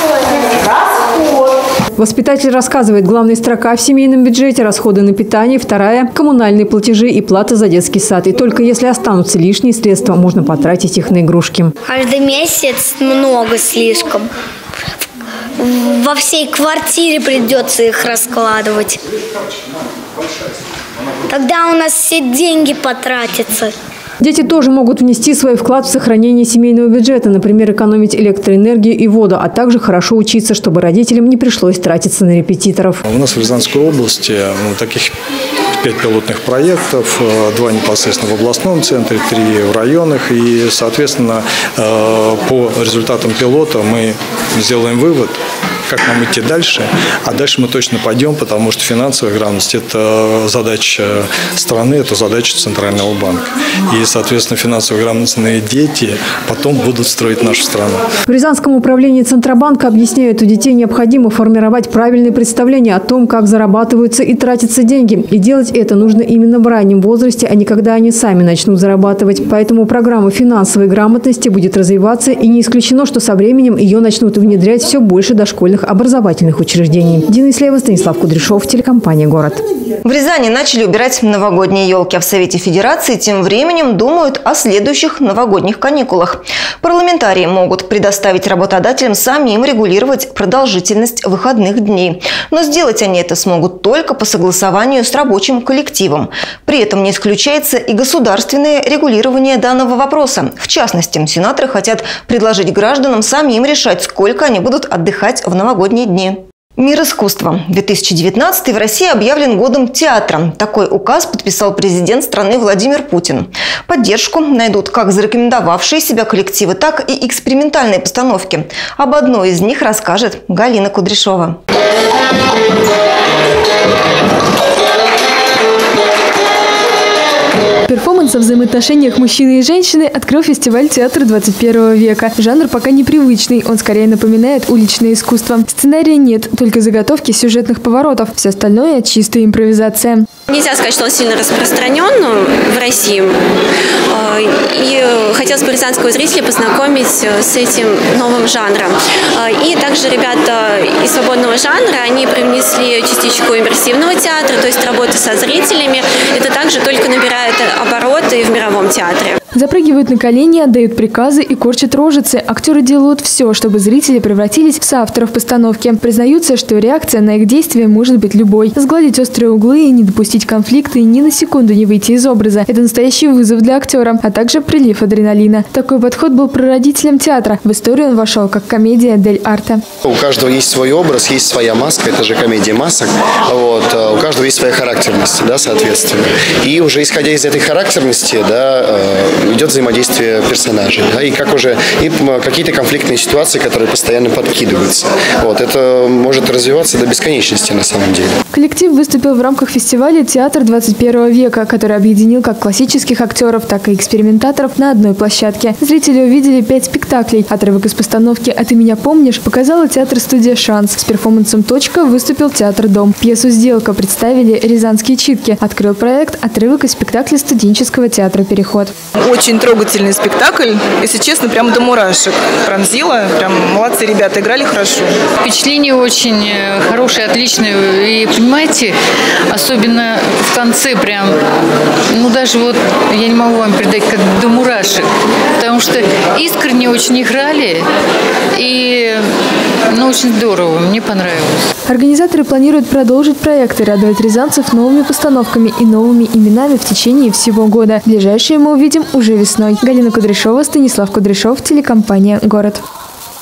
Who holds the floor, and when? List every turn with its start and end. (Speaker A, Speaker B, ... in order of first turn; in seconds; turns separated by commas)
Speaker A: 2.0-11.7, Speaker B: 11.9-14.2, Speaker B: 15.6-18.9, Speaker B: 21.3-23.7, Speaker A: 24.2-33.0, Speaker C: 33.1-35.1, Speaker C: 35.8-45.4, Speaker C: 45.9-58.0, Speaker A: 58.3-79.6, Speaker D: 80.0-121.6, Speaker E: 127.9-140.3, Speaker F: 140.5-143.3, Speaker F: 144.1-159.4, Speaker E: 159.5-179.8, Speaker G: 180.1-198.3, Speaker E: 198.5-218.9, Speaker H: 219.3-222.1, Speaker H: 222.8-225.0, Speaker I: 225.4-229.0, Speaker I: 229.5-231.4, Speaker I: 232.1-235.1, Speaker I: 235.6-237.9, Speaker I: 238.5-239.3, Speaker I: 239.9-241.6, Speaker E: 241.9-252.8